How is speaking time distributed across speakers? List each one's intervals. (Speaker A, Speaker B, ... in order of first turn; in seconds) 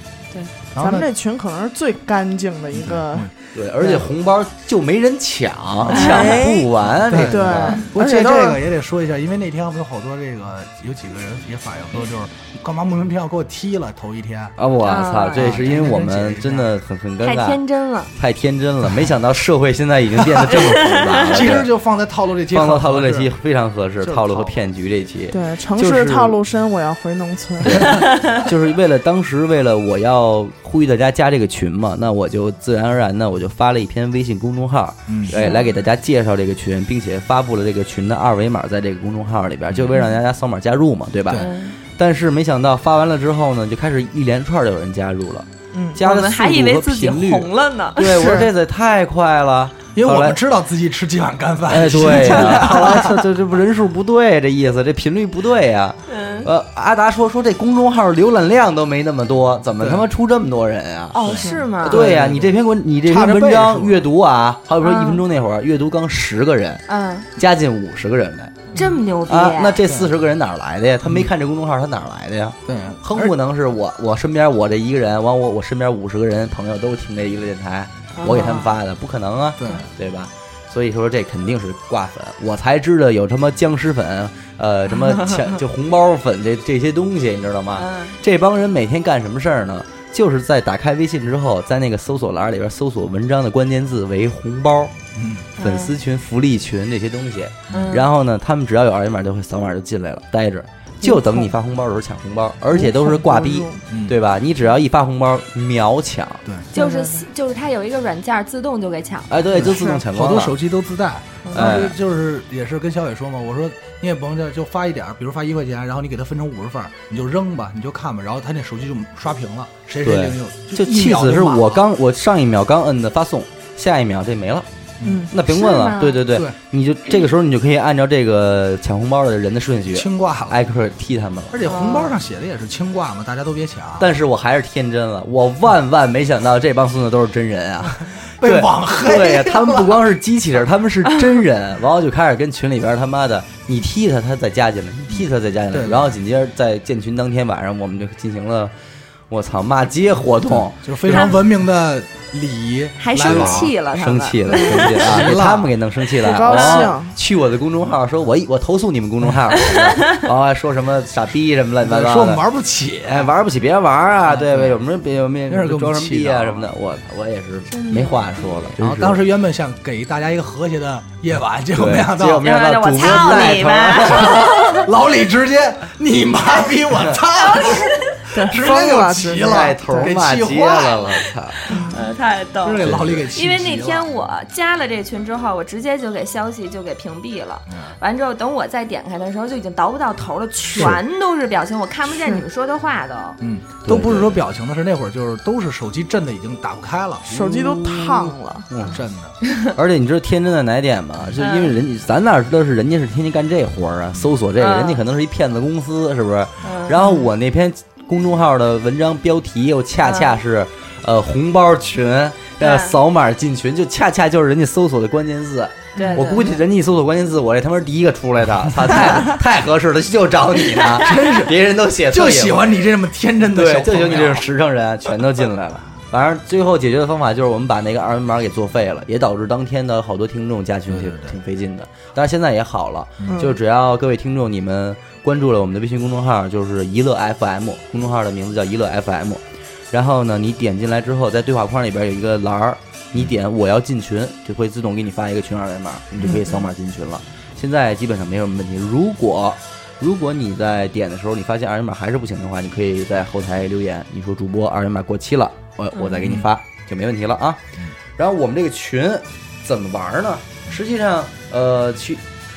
Speaker A: 0.7-1.1, 2.7-3.3, 6.9-14.6, 15.4-16.7, 21.2-23.3, 24.0-24.6, 35.1-35.4, 50.0-53.1, 59.8-60.0, 61.2-62.5, 63.0-64.0, 72.7-73.3, 79.6-79.8, 95.1-95.5, 103.9-104.2, 109.5-121.8, 125.0-125.3, 129.9-130.6, 131.5-134.1, 138.4-140.0, 145.7-146.1, 150.5-153.7, 154.7-155.7, 161.8-163.3, 164.3-164.8, 165.5-166.7, 168.8-172.4, 174.2-181.1, 182.6-184.1, 193.4-197.4, 198.9-199.3, 220.9-224.5, 230.9-231.4, 233.2-233.5
Speaker B: 0.8-3.3, 5.9-8.6, 25.3-27.9, 45.7-46.0, 48.1-48.5, 102.7-103.8, 106.7-107.2, 109.7-110.0, 125.0-125.3, 156.2-157.2, 178.3-179.8, 181.7-182.0, 197.3-198.7, 233.3-233.6
Speaker C: 3.5-7.8, 14.6-17.6, 18.1-21.7, 22.5-26.4, 27.6-50.4, 51.7-66.8, 67.3-68.7, 69.3-94.9, 95.6-106.4, 109.3-110.6, 111.5-112.0, 120.0-124.7, 125.3-131.6, 134.0-148.7, 149.3-151.3, 153.2-162.4, 163.1-169.2, 171.7-174.5, 176.9-177.2, 179.4-181.6, 182.8-183.3, 193.8-194.4, 197.3-199.0, 199.7-222.8, 223.5-257.6, 258.2-262.2
Speaker D: 5.9-6.4, 14.8-16.0, 17.2-18.1, 20.5-21.5, 27.9-28.4, 35.3-35.6, 41.4-41.8, 46.0-48.3, 56.1-56.5, 61.1-62.0, 64.8-65.2, 66.9-67.3, 68.7-69.8, 78.2-78.7, 87.8-88.2, 95.6-96.0, 97.7-98.1, 106.7-109.3, 111.4-111.9, 125.5-126.3, 131.6-132.2, 151.1-151.4, 153.0-155.3, 156.5-156.8, 159.7-160.2, 167.7-168.7, 172.4-174.9, 177.3-178.2, 181.7-193.4, 199.5-199.7, 201.4-201.8, 204.6-205.0, 206.6-207.3, 210.0-210.3, 212.6-213.0, 215.9-216.6, 255.9-256.3